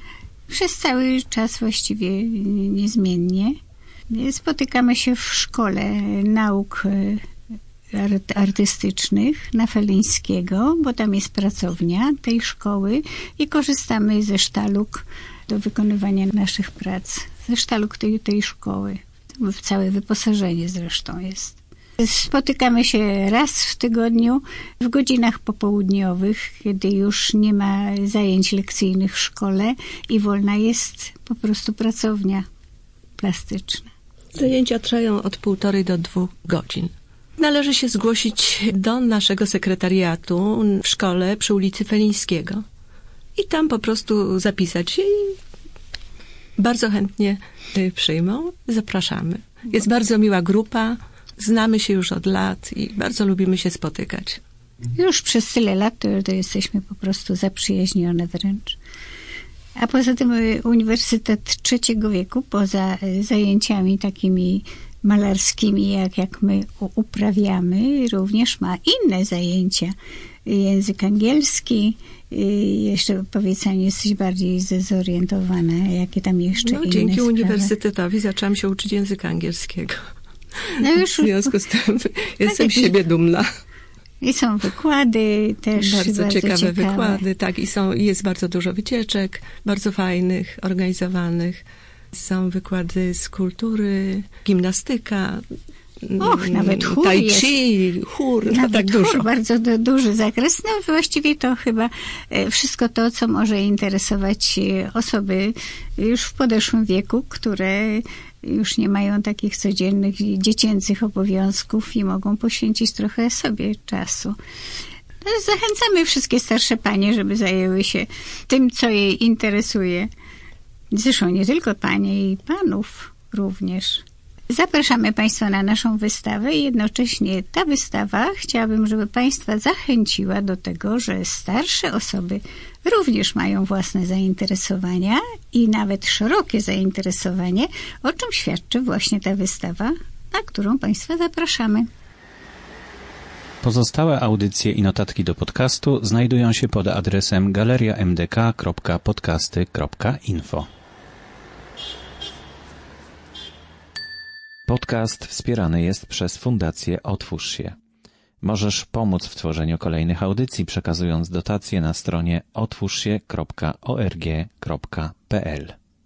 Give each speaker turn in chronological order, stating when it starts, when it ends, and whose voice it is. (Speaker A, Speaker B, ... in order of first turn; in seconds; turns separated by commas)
Speaker A: 0.5-3.5, Speaker A: 4.1-7.2, Speaker A: 7.9-32.4, Speaker A: 33.2-33.9, Speaker B: 34.4-42.6, Speaker B: 43.4-45.4, Speaker B: 46.6-54.4, Speaker A: 54.9-58.8, Speaker A: 59.8-69.9, Speaker A: 70.5-77.7, Speaker B: 76.6-80.0, Speaker A: 80.8-81.5, Speaker B: 81.2-83.5, Speaker A: 82.4-83.0, Speaker A: 84.2-87.2, Speaker B: 85.8-91.6, Speaker B: 92.1-95.4, Speaker B: 96.0-99.2, Speaker A: 96.2-97.5, Speaker A: 98.5-114.3, Speaker A: 115.2-120.1, Speaker A: 120.9-141.9, Speaker C: 143.6-150.7, Speaker C: 154.7-157.7, Speaker C: 158.4-165.7